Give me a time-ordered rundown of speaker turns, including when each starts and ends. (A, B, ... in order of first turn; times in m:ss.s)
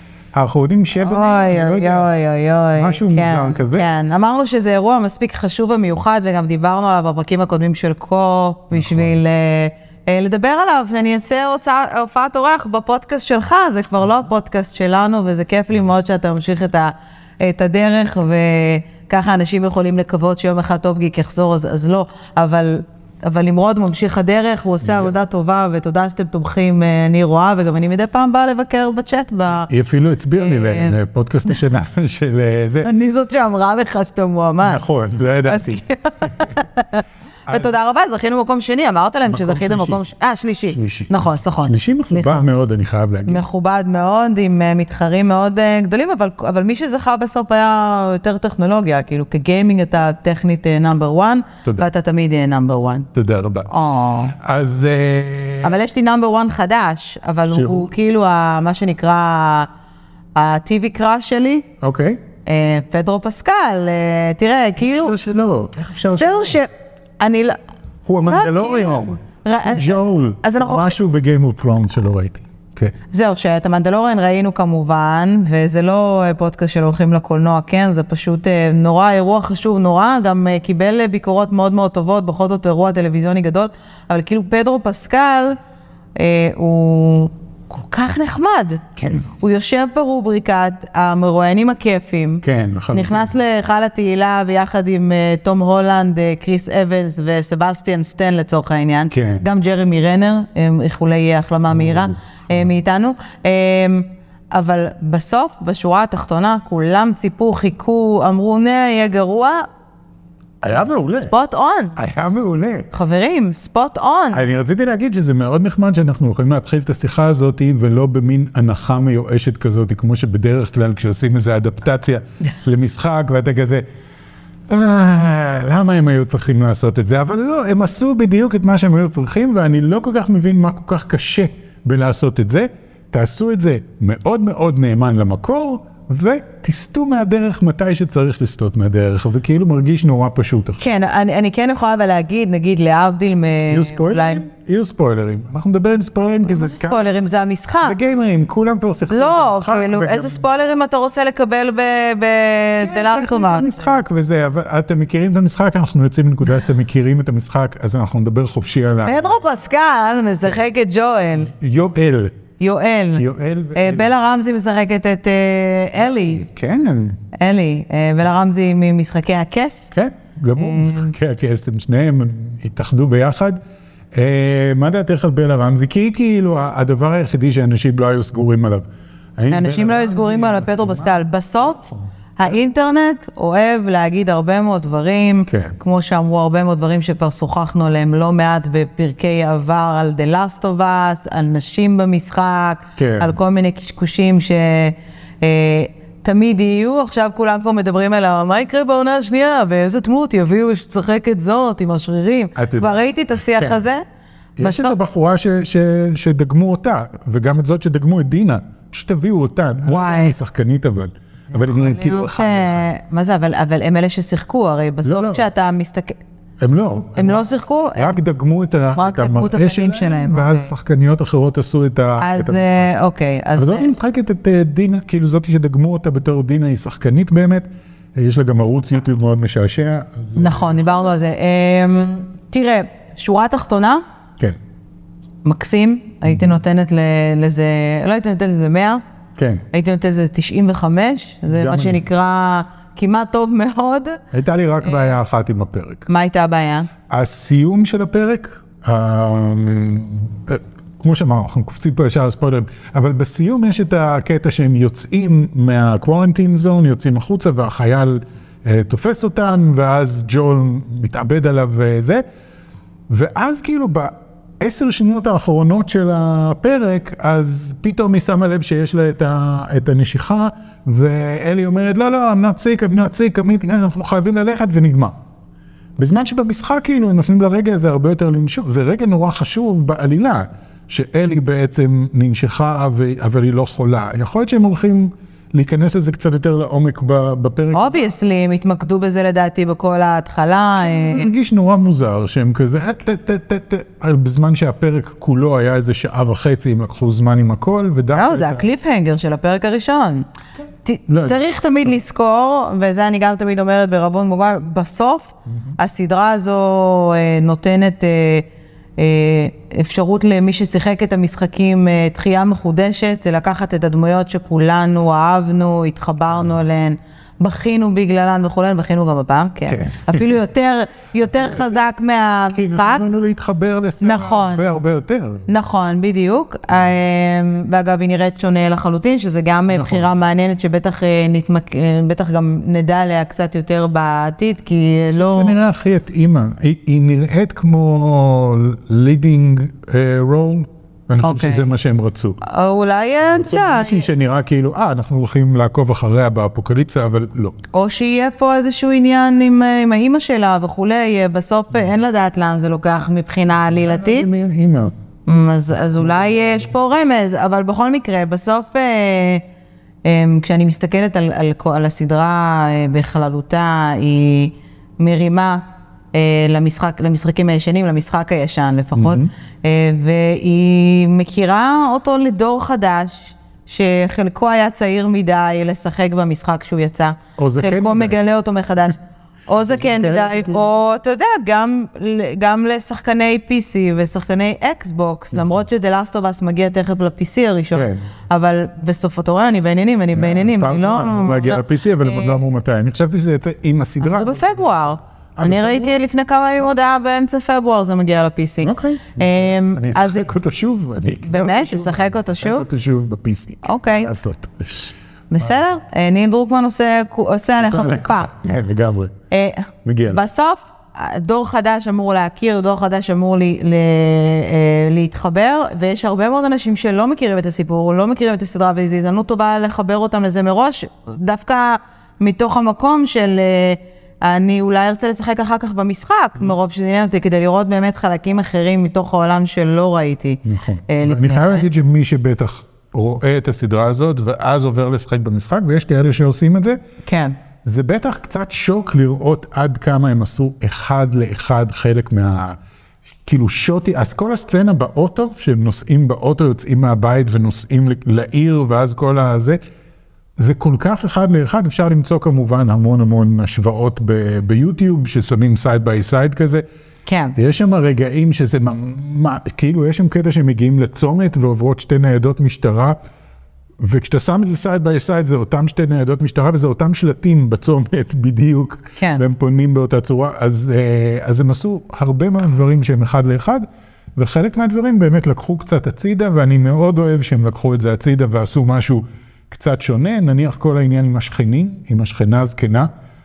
0:00.3-0:02.1 A
0:01.0-0:29.7 B
0:02.8-0:03.9 A
0:08.7-0:09.2 A
0:24.8-0:25.1 A
0:29.7-0:32.9 A
0:30.4-0:31.0 B
0:32.8-0:34.8 B
0:34.6-0:35.8 A
0:35.5-0:42.4 B
0:37.5-0:37.7 A
0:39.3-0:40.0 A
0:40.7-0:43.4 A
0:43.3-0:53.1 B
0:53.1-0:53.7 A
0:53.7-0:54.4 B
0:54.4-0:55.8 A
0:55.6-0:59.7 B
0:57.5-0:57.9 A
1:00.4-1:01.7 B
1:01.8-1:02.2 A
1:02.5-1:05.1 B
1:04.8-1:06.6 A
1:06.1-1:07.6 B
1:08.1-1:12.9 A
1:08.3-1:11.0 B
1:13.1-1:25.6 B
1:26.2-1:28.8 B
1:29.0-1:29.3 A
1:29.4-1:49.7 B
1:32.4-1:33.3 A
1:39.1-1:39.4 A
1:41.7-1:42.7 A
1:50.6-1:51.3 A
1:51.2-1:52.0 B
1:52.0-1:52.9 A
1:52.9-1:54.4 B
1:54.3-2:03.8 A
2:04.7-2:20.9 A
2:20.8-2:24.4 B
2:23.7-2:27.0 A
2:26.5-2:28.0 B
2:27.8-2:30.4 A
2:29.1-2:34.0 B
2:32.8-2:39.2 A
2:39.0-2:41.5 B
2:41.5-2:42.4 A
2:42.6-2:43.2 B
2:43.2-2:44.1 A
2:43.8-2:46.4 B
2:46.2-2:47.2 A
2:47.4-2:49.9 B
2:49.9-2:53.6 A
2:50.6-2:51.1 B
2:54.1-2:58.9 A
2:59.4-3:02.0 A
2:59.5-3:01.8 B
3:02.4-3:24.0 B
3:05.5-3:05.8 A
3:13.0-3:13.4 A
3:22.6-3:23.0 A
3:23.5-3:23.8 A
3:24.6-3:32.9 A
3:24.6-3:25.0 B
3:29.9-3:30.4 B
3:31.5-3:36.2 B
3:35.0-3:35.4 A
3:36.6-3:37.4 A
3:37.2-3:38.2 B
3:38.0-3:42.9 A
3:39.0-3:40.7 B
3:42.2-3:43.9 B
3:43.6-3:51.1 A
3:50.4-3:54.0 B
3:55.4-3:59.0 B
3:59.4-3:59.6 A
3:59.7-4:04.2 B
4:01.5-4:02.0 A
4:04.3-4:06.1 A
4:04.8-4:05.1 B
4:06.1-4:06.9 B
4:07.1-4:22.2 A
4:23.1-4:35.2 A
4:36.0-4:48.0 A
4:47.7-4:51.3 B
4:50.8-4:58.7 A
4:58.2-5:00.3 B
5:00.8-5:08.5 B
5:01.1-5:01.4 A
5:09.0-5:23.0 B
5:19.7-5:20.2 A
5:21.4-5:21.8 A
5:22.5-5:25.5 A
5:24.0-5:24.6 B
5:25.5-5:35.6 B
5:29.7-5:30.1 A
5:35.3-5:42.4 A
5:41.2-5:41.7 B
5:42.4-5:44.1 B
5:43.3-5:47.6 A
5:47.7-5:54.3 B
5:53.7-5:54.9 A
5:55.3-5:59.4 B
5:55.9-5:56.3 A
6:00.0-6:05.6 B
6:06.1-6:32.4 B
6:09.0-6:09.3 A
6:17.4-6:18.2 A
6:19.6-6:20.6 A
6:25.3-6:25.6 A
6:27.7-6:28.0 A
6:30.1-6:36.0 A
6:34.0-6:40.3 B
6:38.6-6:44.9 A
6:41.3-6:42.6 B
6:43.6-6:44.1 B
6:45.3-6:48.3 B
6:47.6-6:49.1 A
6:49.3-7:11.7 B
6:49.8-6:50.2 A
7:10.4-7:16.8 A
7:17.0-7:17.4 B
7:17.6-7:22.6 A
7:23.2-7:29.6 A
7:30.4-7:36.6 A
7:37.1-7:37.4 B
7:37.4-7:43.0 A
7:43.8-8:02.9 A
7:49.0-7:49.2 B